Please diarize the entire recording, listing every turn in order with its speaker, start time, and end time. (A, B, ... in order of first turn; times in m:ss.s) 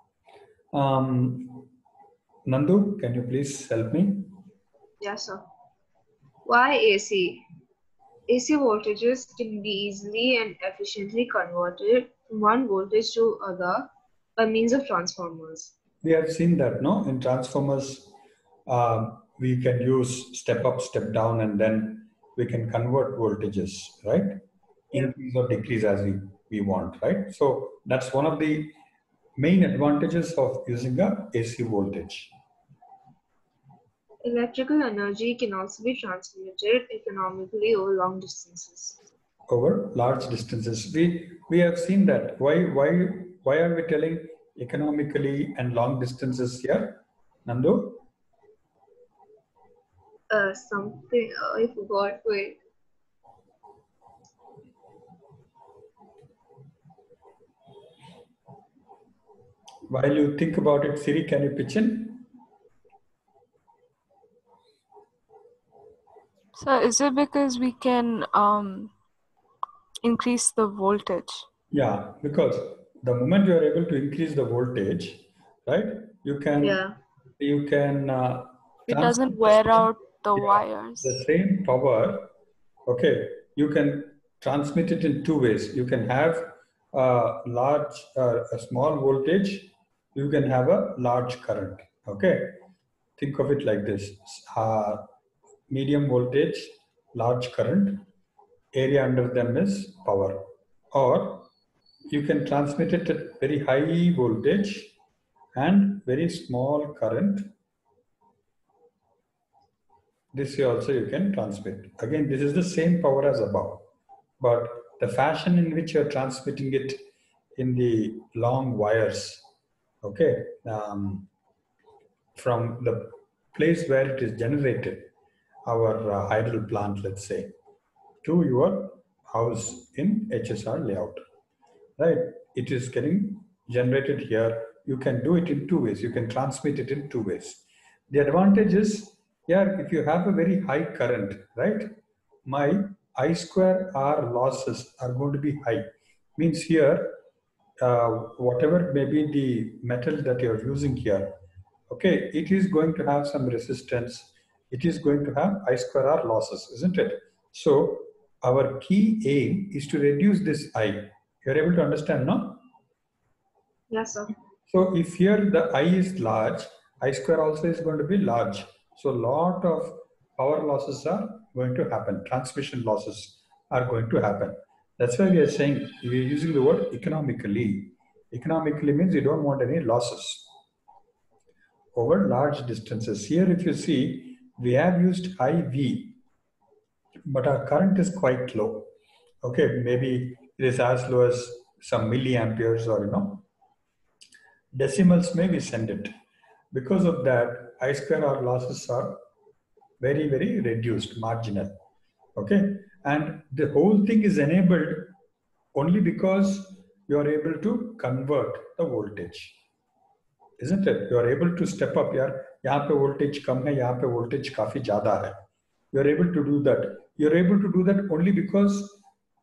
0:00.7-0:01.7 A
0:02.4-0:04.3 A
0:05.0-0:05.5 B
0:06.4-0:07.4 B
0:08.3-0:15.7 B
0:16.0-0:18.1 A
0:18.7-0:28.8 A
0:29.4-0:32.3 A
0:34.2-0:39.0 B
0:39.5-0:48.0 A
0:50.3-0:52.6 B
0:59.9-1:02.2 A
1:06.5-1:08.9 C
1:10.0-1:11.5 C
1:11.7-1:16.9 A
1:16.6-1:17.0 B
1:17.4-1:22.3 A
1:18.9-1:21.2 C
1:22.9-1:32.6 A
1:33.2-1:35.1 A
1:35.7-1:38.1 A
1:38.7-1:41.5 A
1:42.1-1:44.9 A
1:45.6-1:47.5 A
1:50.3-1:53.9 A
1:54.4-1:57.0 A
1:57.6-1:59.4 A
2:00.0-2:01.3 A
2:02.3-2:05.1 A
2:05.6-2:07.5 A
2:08.2-2:11.2 A
2:12.0-2:27.2 A
2:27.8-2:42.6 A
2:43.9-2:44.3 B
2:44.7-3:00.5 A
3:01.9-3:06.2 A
3:07.3-3:08.9 A
3:09.4-3:13.4 A
3:14.7-3:16.1 A
3:16.7-3:19.2 A
3:20.0-3:21.8 A
3:22.4-3:25.1 A
3:25.8-3:29.6 A
3:30.6-3:35.4 A
3:35.9-3:39.0 A